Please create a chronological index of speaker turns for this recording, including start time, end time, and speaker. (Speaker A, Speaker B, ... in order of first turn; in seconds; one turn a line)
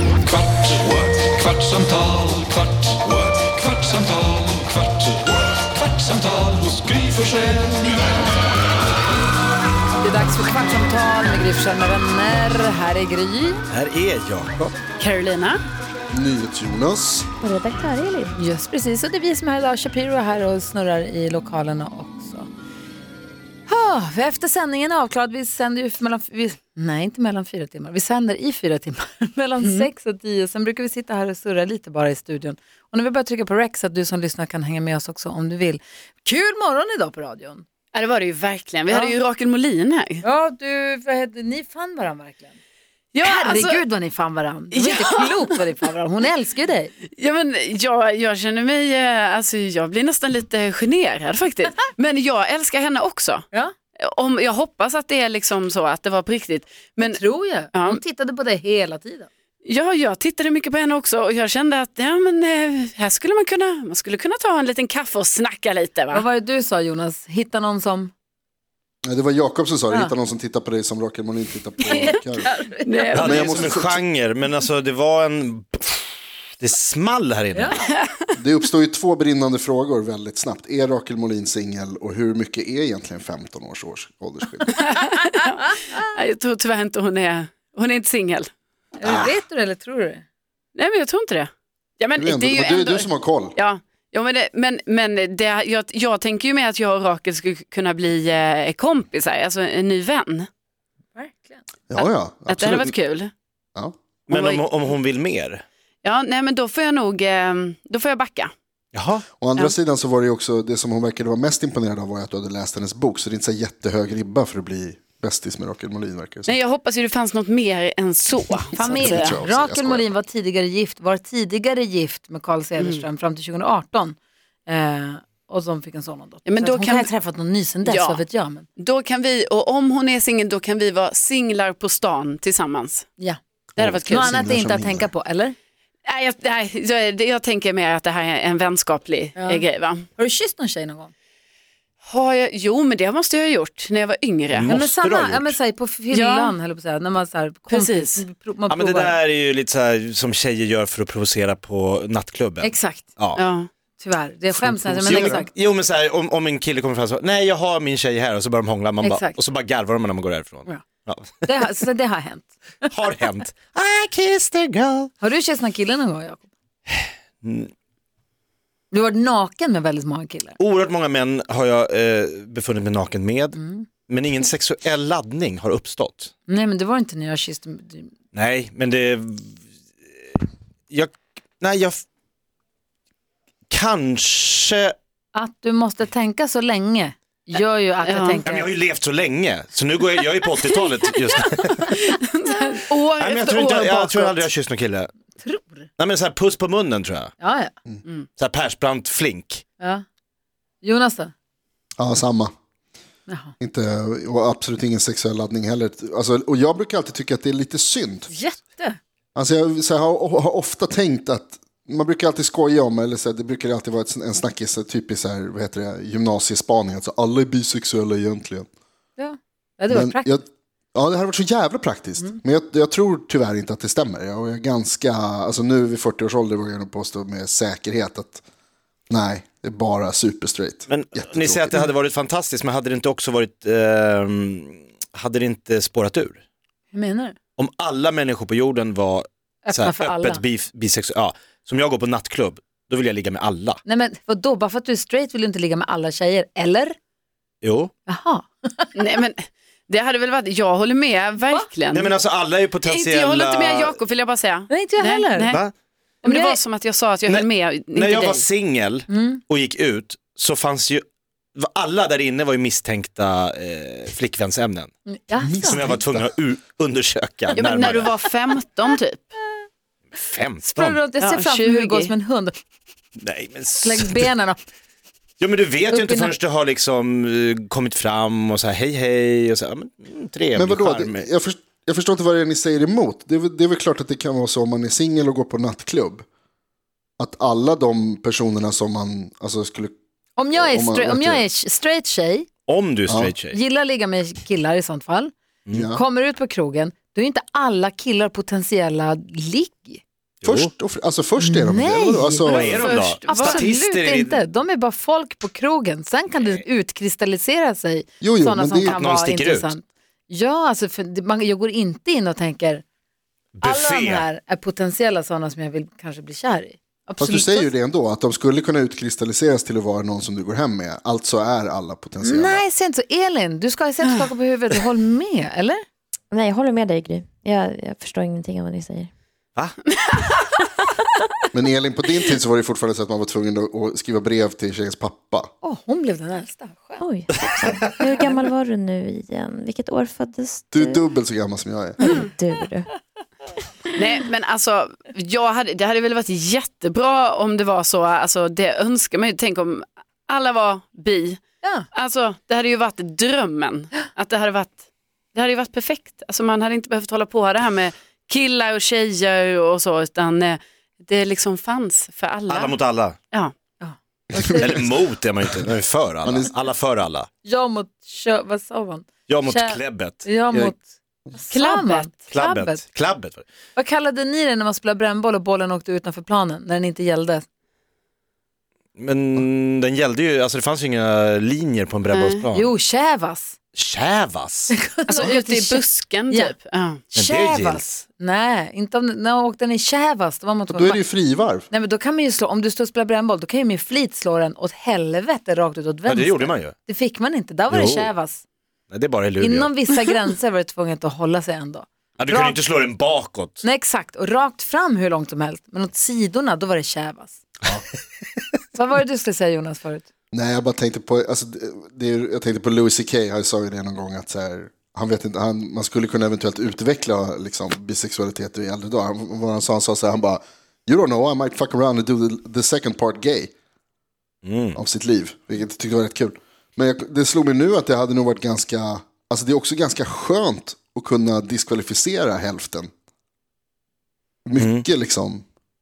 Speaker A: 0.3-7.8
Speaker B: 10.0-13.6
Speaker C: 13.7-14.8
Speaker D: 15.0-15.6
Speaker E: 16.1-17.3
Speaker F: 17.4-18.4
Speaker B: 18.3-22.5
Speaker B: 23.7-37.6
Speaker D: 29.6-29.9
Speaker D: 37.9-40.2
Speaker B: 38.9-39.1
Speaker B: 40.2-42.5
Speaker D: 43.1-43.8
Speaker B: 43.2-46.9
Speaker D: 44.7-45.4
Speaker D: 47.1-53.5
Speaker D: 54.0-57.2
Speaker B: 57.0-59.3
Speaker D: 57.7-58.0
Speaker D: 59.6-66.2
Speaker B: 66.1-68.1
Speaker E: 69.0-72.5
Speaker B: 69.9-70.1
Speaker B: 71.8-73.3
Speaker D: 72.8-73.7
Speaker C: 73.1-77.8
Speaker E: 73.2-74.0
Speaker B: 77.5-77.8
Speaker E: 78.3-84.8
Speaker D: 84.8-88.5
Speaker B: 89.0-90.2
Speaker E: 89.0-89.3
Speaker D: 90.8-100.5
Speaker E: 92.2-93.5
Speaker B: 101.1-101.6
Speaker E: 101.9-102.9
Speaker D: 102.0-103.3
Speaker D: 104.3-104.9
Speaker C: 104.3-105.6
Speaker D: 106.0-108.5
Speaker C: 108.9-109.2
Speaker E: 109.4-116.5
Speaker D: 116.5-119.3
Speaker B: 118.7-128.7
Speaker E: 118.8-120.1
Speaker D: 122.8-123.0
Speaker D: 126.4-127.1
Speaker D: 127.8-128.2
Speaker D: 128.8-133.1
Speaker E: 133.8-135.1
Speaker D: 133.8-134.4
Speaker B: 134.1-135.5
Speaker D: 136.1-140.1
Speaker B: 139.3-139.6
Speaker B: 140.2-141.1
Speaker D: 142.0-144.7
Speaker C: 144.5-145.6
Speaker B: 144.7-149.2
Speaker D: 146.1-146.6
Speaker D: 147.7-148.2
Speaker C: 148.7-153.4
Speaker B: 152.6-153.1
Speaker D: 153.3-153.7
Speaker B: 154.0-155.5
Speaker C: 154.5-161.6
Speaker B: 159.0-159.4
Speaker B: 161.4-162.5
Speaker C: 162.9-165.1
Speaker B: 165.2-166.5
Speaker C: 167.0-167.7
Speaker B: 168.9-170.6
Speaker C: 170.6-173.6
Speaker B: 173.5-173.9
Speaker C: 174.1-176.3
Speaker B: 176.5-178.1
Speaker C: 178.3-179.6
Speaker C: 180.9-182.0
Speaker C: 183.7-184.9
Speaker B: 185.3-188.7
Speaker D: 188.0-188.4
Speaker C: 188.4-191.9
Speaker D: 191.9-194.4
Speaker C: 193.2-195.1
Speaker B: 195.4-195.9
Speaker C: 196.0-197.3
Speaker B: 197.4-197.7
Speaker C: 198.4-199.6
Speaker B: 199.8-200.0
Speaker B: 200.8-201.3
Speaker E: 202.0-202.5
Speaker B: 203.3-203.5
Speaker E: 203.6-208.3
Speaker B: 208.3-209.0
Speaker E: 209.3-218.7
Speaker B: 219.2-220.4
Speaker E: 219.9-228.4
Speaker E: 229.1-231.9
Speaker C: 230.9-236.4
Speaker B: 236.9-237.3
Speaker C: 237.6-243.8
Speaker B: 239.6-240.4
Speaker B: 243.8-247.0
Speaker C: 247.6-247.9
Speaker B: 248.1-248.9
Speaker D: 248.9-252.1
Speaker C: 251.9-254.0
Speaker D: 252.8-255.6
Speaker B: 254.7-255.5
Speaker C: 255.5-255.7
Speaker D: 256.2-258.5
Speaker B: 256.2-256.6
Speaker C: 257.3-261.0
Speaker B: 259.1-259.4
Speaker C: 261.6-264.9
Speaker B: 265.1-265.9
Speaker E: 265.4-266.3
Speaker C: 265.6-268.2
Speaker D: 267.5-269.3
Speaker C: 270.1-271.0
Speaker B: 270.6-272.6
Speaker D: 271.2-272.1
Speaker C: 273.2-274.3
Speaker B: 273.8-274.6
Speaker C: 275.4-281.2
Speaker B: 275.9-276.3
Speaker E: 280.5-286.2
Speaker E: 287.2-289.9
Speaker B: 290.4-292.5
Speaker E: 290.5-291.4
Speaker C: 292.7-293.6
Speaker E: 293.1-293.3
Speaker B: 293.5-295.3
Speaker E: 295.7-296.0
Speaker B: 295.9-300.0
Speaker C: 300.4-300.7
Speaker E: 300.4-302.9
Speaker B: 301.4-312.8
Speaker C: 302.5-304.4
Speaker D: 302.6-303.7
Speaker E: 308.2-309.0
Speaker C: 308.8-309.7
Speaker C: 313.6-314.2
Speaker B: 313.6-317.7
Speaker E: 317.2-322.6
Speaker B: 322.2-325.9
Speaker F: 326.3-329.1
Speaker E: 331.5-335.5
Speaker B: 335.6-337.0
Speaker F: 337.0-341.0
Speaker C: 337.6-338.0
Speaker E: 340.7-342.2
Speaker F: 342.0-343.0
Speaker D: 343.9-351.4
Speaker D: 351.9-354.8
Speaker D: 355.3-362.8
Speaker C: 362.5-363.1
Speaker B: 363.8-364.9
Speaker E: 364.3-364.9
Speaker C: 364.5-367.3
Speaker E: 366.2-366.5
Speaker B: 367.4-372.8
Speaker C: 369.3-370.7
Speaker D: 371.5-372.6
Speaker C: 372.3-373.4
Speaker B: 373.8-377.4
Speaker C: 379.0-382.7
Speaker D: 382.1-382.4
Speaker B: 382.5-383.6
Speaker C: 383.8-384.7
Speaker B: 384.7-386.5
Speaker D: 385.1-387.0
Speaker B: 387.1-391.0
Speaker C: 387.1-387.9
Speaker E: 390.7-391.7
Speaker B: 391.7-398.4
Speaker C: 396.1-396.7
Speaker C: 397.7-398.1
Speaker C: 398.9-399.7
Speaker B: 399.4-402.6
Speaker C: 402.2-403.6
Speaker B: 403.6-407.4
Speaker B: 408.7-410.1
Speaker E: 410.3-423.5
Speaker C: 424.4-424.8
Speaker E: 424.7-432.9
Speaker E: 434.4-435.4
Speaker C: 434.6-434.9